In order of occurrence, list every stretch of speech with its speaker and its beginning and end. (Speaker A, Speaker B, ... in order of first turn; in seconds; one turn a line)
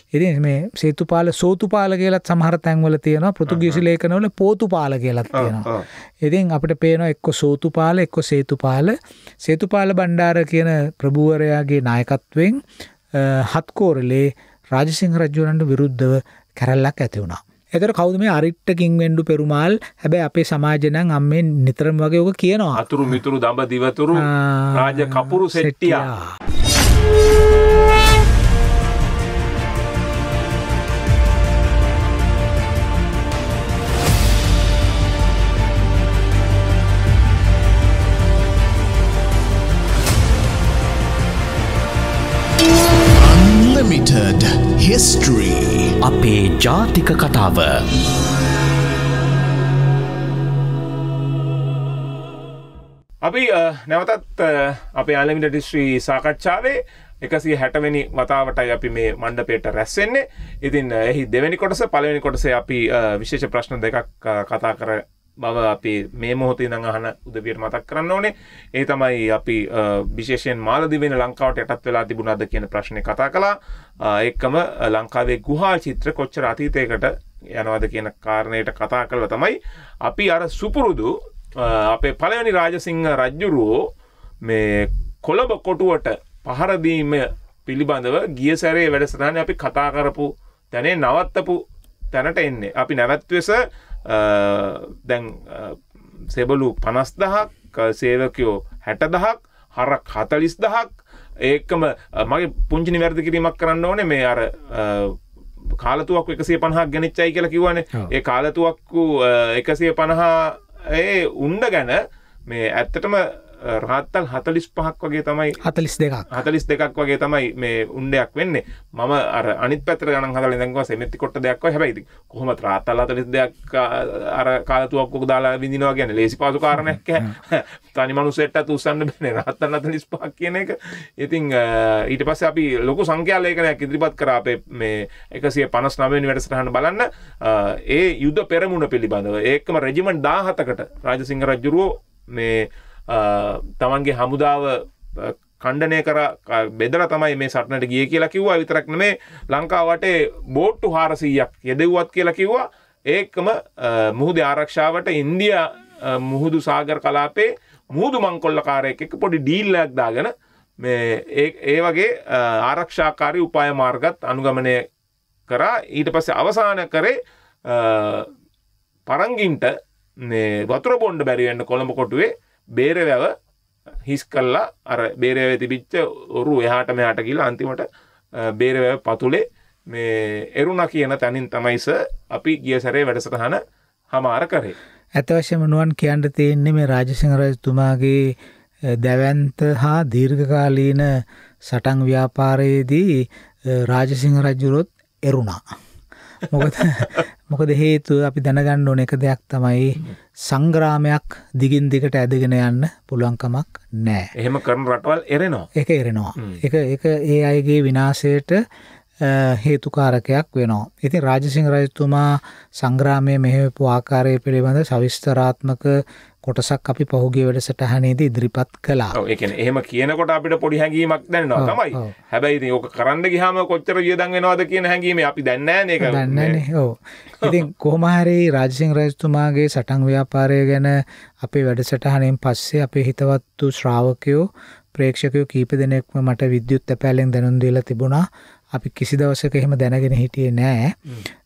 Speaker A: 0.1-5.7
Speaker B: 3.5-3.8
Speaker B: 5.3-5.8
Speaker A: 6.2-12.6
Speaker A: 13.1-22.9
Speaker B: 22.8-26.1
Speaker A: 24.1-26.3
Speaker C: 43.1-47.9
Speaker B: 53.2-83.8
Speaker B: 84.4-105.2
Speaker B: 105.8-115.6
Speaker A: 115.6-116.3
Speaker B: 116.3-164.8
Speaker B: 165.5-168.3
Speaker B: 169.1-173.3
Speaker B: 174.1-183.6
Speaker B: 184.1-184.8
Speaker A: 185.2-188.3
Speaker A: 188.9-195.6
Speaker A: 196.5-204.3
Speaker B: 204.3-205.7
Speaker A: 205.7-208.6
Speaker A: 209.2-219.2
Speaker B: 219.1-226.6
Speaker A: 221.6-222.1
Speaker A: 226.0-241.0